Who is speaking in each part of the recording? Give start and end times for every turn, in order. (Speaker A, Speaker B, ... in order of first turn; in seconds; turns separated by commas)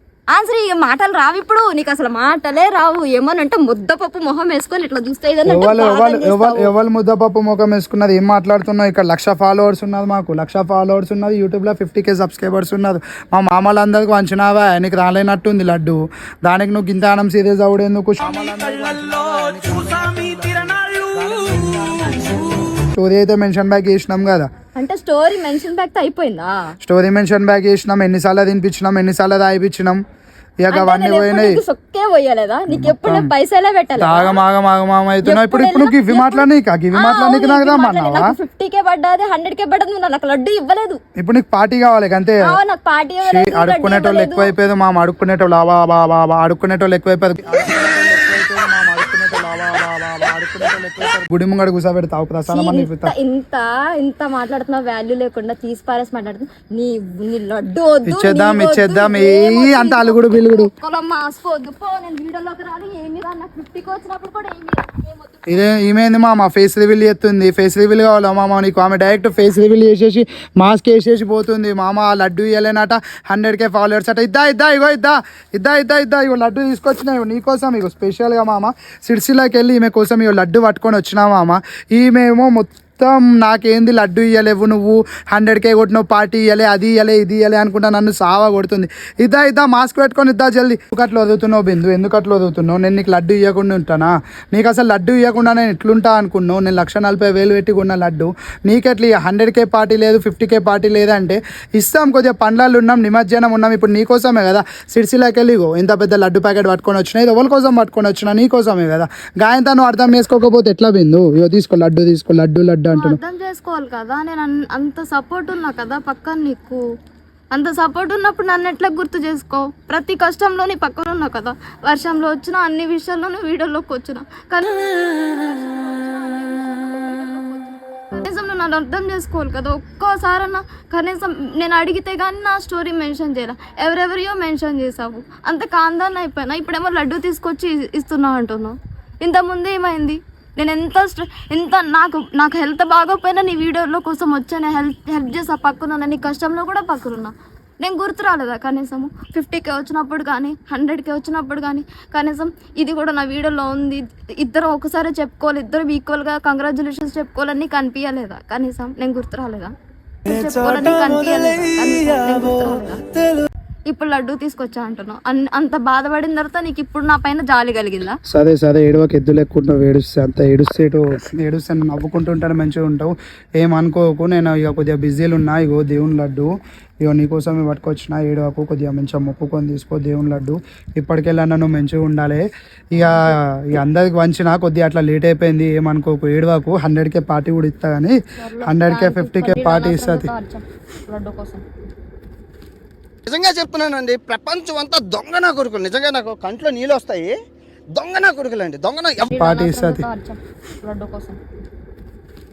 Speaker A: 0.3-6.7, Speaker B: 5.5-24.5, Speaker A: 24.8-26.8, Speaker B: 26.8-30.0, Speaker B: 30.6-31.6, Speaker A: 30.7-34.4, Speaker B: 32.7-33.3, Speaker B: 34.0-38.3, Speaker A: 35.2-41.0, Speaker B: 41.2-42.6, Speaker A: 42.5-44.5, Speaker B: 43.2-53.1, Speaker A: 52.5-65.4, Speaker B: 58.1-60.7, Speaker B: 65.5-113.2, Speaker A: 112.9-116.8, Speaker A: 117.5-159.7, Speaker A: 160.3-163.0, Speaker A: 163.9-168.2, Speaker B: 168.3-176.5, Speaker B: 177.0-190.3, Speaker A: 188.4-191.6, Speaker C: 193.3-197.4, Speaker C: 197.9-199.3, Speaker A: 199.3-201.4, Speaker B: 199.3-200.1